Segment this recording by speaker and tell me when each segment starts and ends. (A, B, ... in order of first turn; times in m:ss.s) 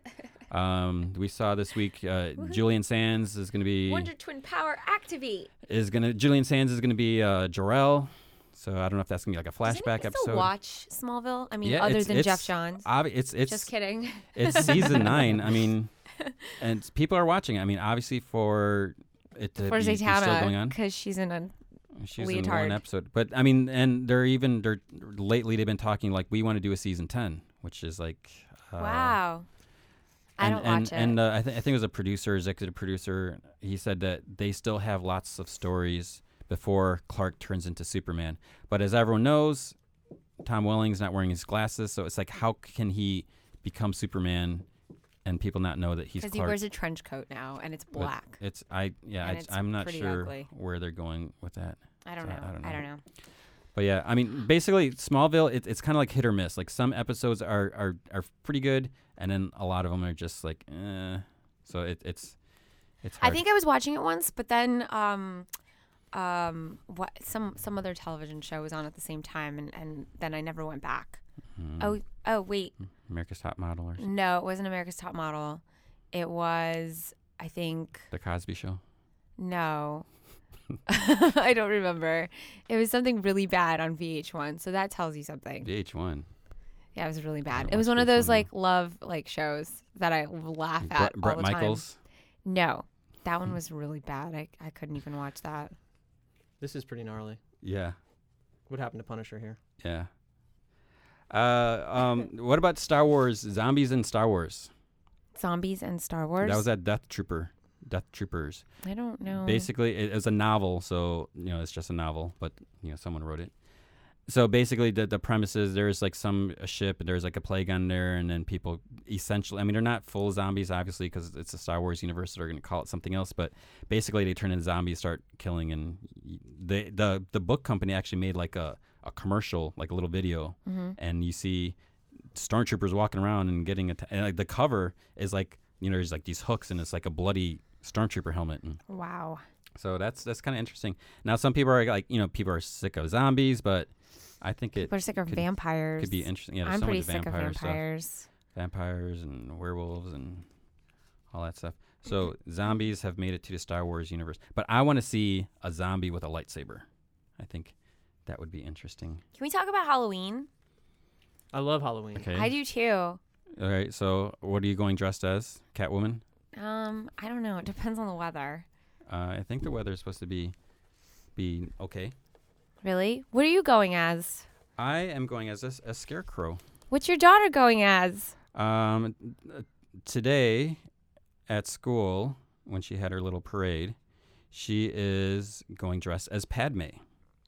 0:00.5-0:04.1 A
0:03.9-0:05.5 B
0:05.7-0:10.5 A
0:09.6-0:12.9 B
0:11.6-0:13.7 A
0:13.5-0:15.2 B
0:14.3-0:15.9 A
0:16.6-0:20.8 A
0:19.6-0:21.5 B
0:22.0-0:29.2 A
0:22.2-0:22.8 B
0:28.8-0:29.5 B
0:30.4-0:31.2 B
0:30.4-0:39.8 A
0:40.4-0:44.7 A
0:45.2-0:46.6 A
0:46.2-0:48.4 B
0:47.9-0:52.8 A
0:49.2-0:50.5 B
0:52.0-0:53.0 B
0:53.7-1:02.4 A
1:03.0-1:03.4 A
1:03.2-1:05.5 B
1:06.1-1:11.2 B
1:11.6-1:12.0 A
1:11.8-1:12.7 B
1:13.1-1:14.1 A
1:14.0-1:18.1 B
1:18.1-1:18.8 A
1:19.4-1:20.1 B
1:20.9-1:25.7 B
1:25.6-1:26.3 A
1:27.0-1:31.8 B
1:27.5-1:28.5 A
1:30.8-1:32.0 A
1:32.4-1:35.7 B
1:36.6-1:37.4 C
1:37.6-1:38.0 A
1:38.7-1:39.6 C
1:39.8-1:40.1 A
1:41.3-1:44.7 A
1:45.4-1:46.7 B
1:46.4-1:48.6 A
1:48.8-1:49.7 B
1:49.3-1:53.5 A
1:54.3-2:11.8 A
2:10.7-2:11.0 B
2:12.3-2:18.8 A
2:18.9-2:19.4 B
2:19.8-2:23.9 A
2:24.4-2:25.5 A
2:24.8-2:28.3 B
2:26.0-2:27.8 A
2:28.5-2:30.5 A
2:31.3-2:36.9 A
2:37.4-2:37.7 A
2:38.3-2:39.2 A
2:39.4-2:40.5 B
2:41.5-2:42.3 C
2:42.1-2:42.5 A
2:42.3-2:43.2 B
2:43.6-2:46.2 A
2:46.5-2:48.7 B
2:49.1-2:50.6 A
2:51.4-2:52.1 A
2:52.8-2:54.5 B
2:54.8-2:56.6 A
2:56.9-2:58.3 B
2:58.5-3:00.8 A
3:01.5-3:04.0 A
3:04.5-3:07.0 A